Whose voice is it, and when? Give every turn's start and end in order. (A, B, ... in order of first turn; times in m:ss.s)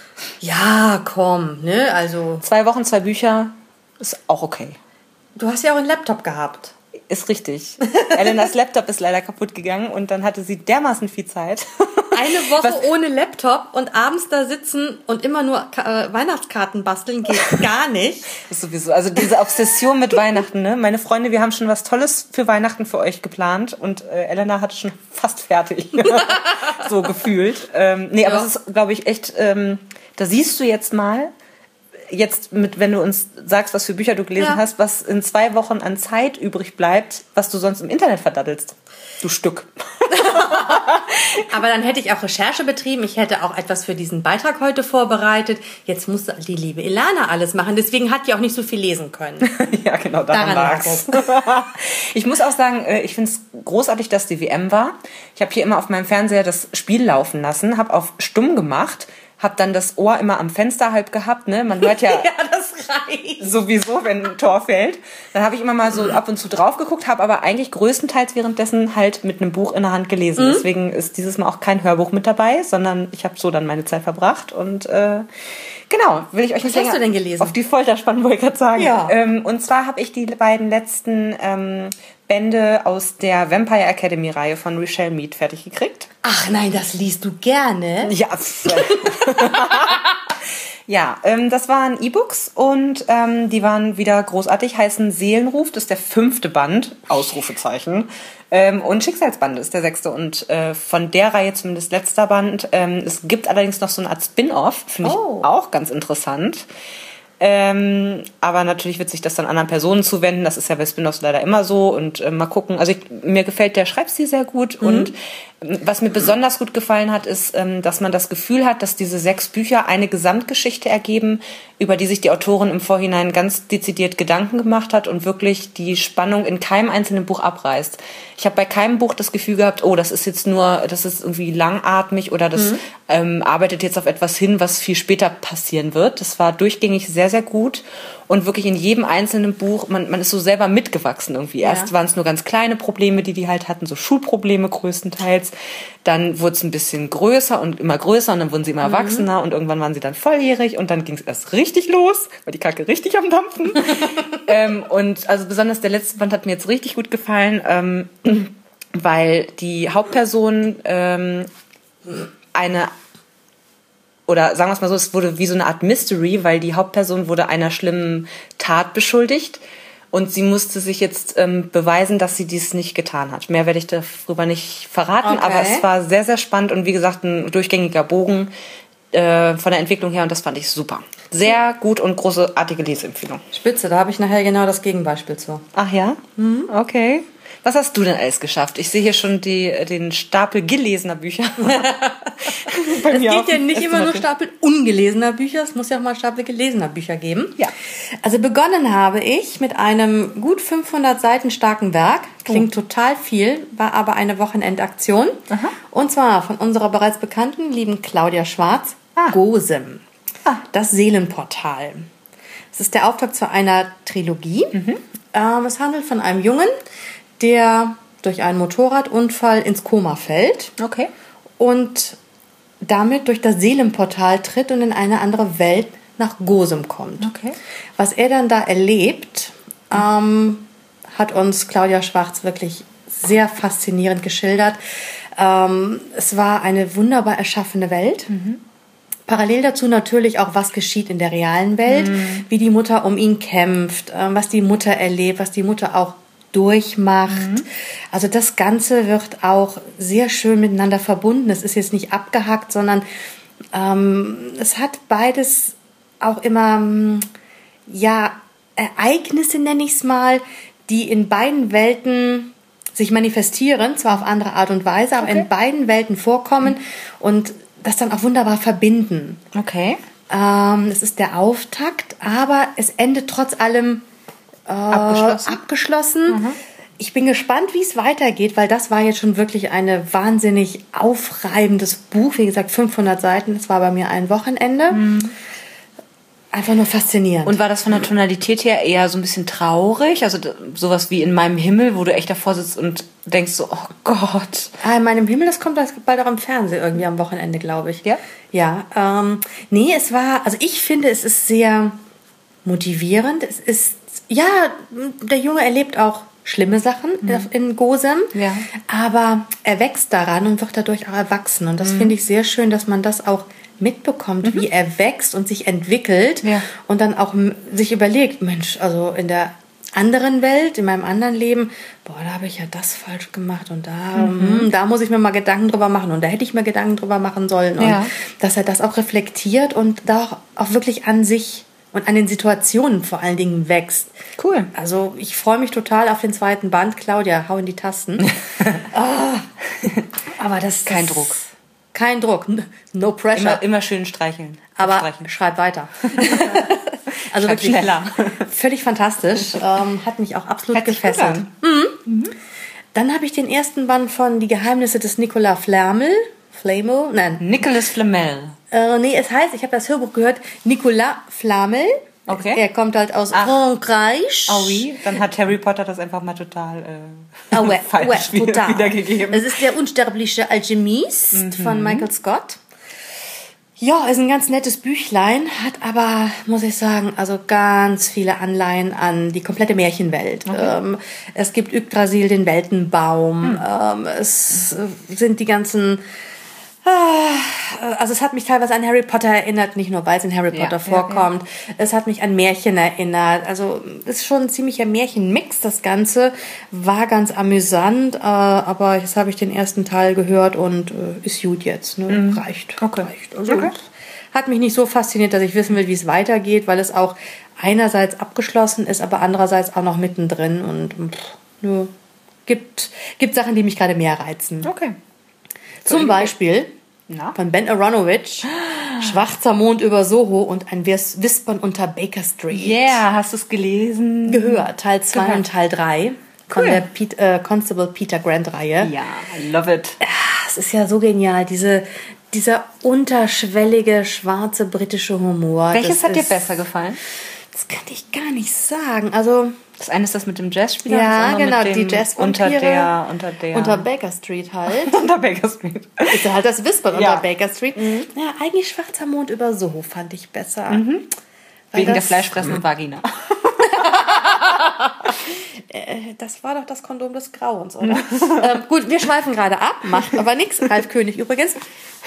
0:00.4-0:02.4 A
0:02.4-0:04.8 B
0:05.4-0:06.7 A
0:07.1-0:12.8 B
0:12.1-0:18.3 A
0:18.4-0:31.3 B
0:32.1-0:41.2 B
0:40.1-0:49.5 A
0:49.4-1:02.3 B
0:50.3-0:51.4 A
1:01.8-1:03.6 A
1:03.4-1:15.2 B
1:10.4-1:10.7 A
1:15.9-1:26.1 B
1:16.6-1:17.5 A
1:18.7-1:19.2 A
1:26.2-1:28.1 A
1:28.0-1:30.1 B
1:28.7-1:30.0 A
1:30.9-1:46.6 B
1:45.0-1:45.5 A
1:47.4-2:41.5 B
1:54.8-1:55.1 A
2:12.5-2:12.8 A
2:21.6-2:21.9 A
2:28.8-2:29.3 A
2:42.5-2:42.9 B
2:44.3-2:49.6 B
2:50.1-2:58.5 B
2:55.2-2:55.9 A
2:59.1-3:03.4 B
3:03.5-3:05.6 A
3:05.7-3:14.2 B
3:06.4-3:06.7 A
3:11.6-3:17.6 A
3:18.2-3:25.4 A
3:25.5-3:25.7 B
3:25.9-3:30.0 A
3:30.6-3:32.0 A
3:32.7-3:34.8 A
3:34.7-3:35.0 B
3:35.3-3:36.7 A
3:37.4-3:40.7 A
3:40.8-3:41.1 B
3:41.6-3:42.2 A
3:42.8-3:47.3 A
3:47.2-3:47.6 B
3:48.0-3:54.8 A
3:55.4-3:58.3 A
3:58.3-3:58.6 B
3:59.3-4:13.0 A
4:01.8-4:02.4 B
4:07.3-4:07.6 B
4:13.7-4:17.2 A
4:17.9-4:29.4 A
4:25.2-4:25.5 B
4:29.5-4:30.0 B
4:30.3-4:34.0 A
4:34.7-4:36.4 A
4:34.9-4:35.6 B
4:36.3-4:36.6 B
4:37.0-4:45.0 A
4:44.9-4:45.3 B
4:46.5-4:47.6 A
4:47.4-4:54.7 B
4:54.8-5:02.0 A
5:02.6-5:34.1 A
5:08.3-5:08.7 B
5:11.8-5:12.1 B
5:16.4-5:16.7 B
5:24.1-5:24.7 B
5:27.8-5:28.1 B
5:34.4-5:34.7 B
5:34.7-5:39.4 A
5:40.4-5:41.4 A
5:40.8-5:41.4 B
5:41.9-5:43.6 A
5:43.3-5:45.3 B
5:44.8-5:52.0 A
5:46.1-5:48.4 B
5:50.7-5:51.5 B
5:52.0-5:52.3 B
5:52.9-5:57.5 A
5:57.4-5:58.6 B
5:58.7-6:04.9 A
6:02.3-6:02.6 B
6:04.5-6:09.6 B
6:07.5-6:12.6 A
6:11.3-6:12.1 B
6:13.8-6:26.0 A
6:20.5-6:20.7 B
6:26.8-6:43.8 A
6:30.5-6:31.3 B
6:42.1-6:43.7 B
6:44.3-6:51.9 A
6:52.4-6:54.7 A
6:54.6-6:55.0 B
6:55.8-6:56.3 B
6:55.8-6:56.7 A
6:57.1-6:57.4 B
6:57.3-7:03.0 A
6:58.5-6:59.1 B
7:02.5-7:05.4 B
7:04.3-7:08.9 A
7:06.5-7:06.8 B
7:08.8-7:10.0 B
7:10.0-7:16.4 A
7:15.7-7:17.0 B
7:17.5-7:19.6 A
7:19.8-7:23.8 B
7:20.8-7:22.9 A
7:23.5-7:25.0 A
7:24.7-7:26.2 B
7:26.1-7:30.8 A
7:26.9-7:27.2 B
7:27.8-7:28.1 B
7:30.7-7:31.1 B
7:31.7-7:32.6 A
7:31.7-7:33.9 B
7:33.6-7:41.6 A
7:37.9-7:38.4 B